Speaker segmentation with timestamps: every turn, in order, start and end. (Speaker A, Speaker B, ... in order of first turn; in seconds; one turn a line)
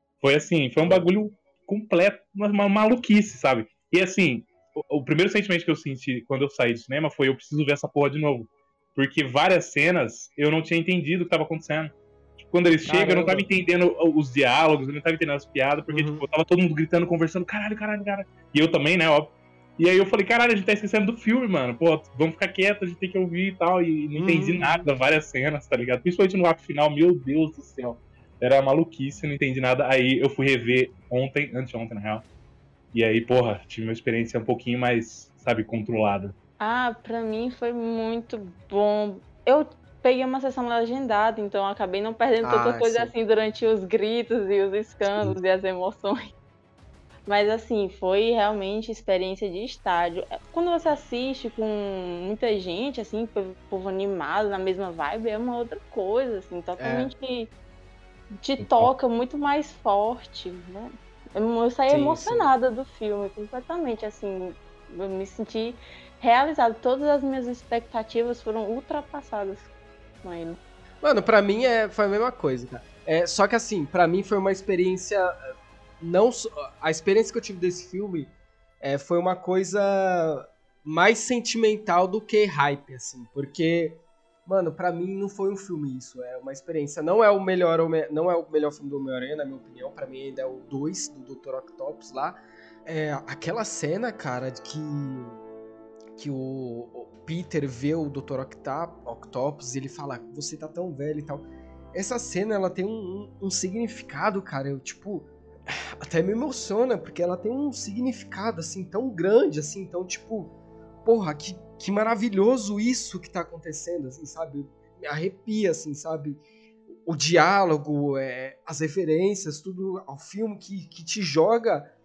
Speaker A: 0.2-32.2
Speaker B: 12.8-13.5
Speaker B: 15.9-16.2
Speaker B: 24.2-24.9
Speaker A: 32.9-36.3
Speaker C: 36.6-46.3
Speaker B: 42.4-43.1
Speaker C: 47.3-57.5
Speaker B: 56.8-57.1
Speaker C: 58.3-69.7
Speaker A: 58.6-58.9
Speaker B: 61.9-62.5
Speaker C: 70.2-70.6
Speaker B: 71.0-95.4
Speaker B: 96.2-110.5
Speaker B: 111.0-116.4
Speaker B: 117.1-121.9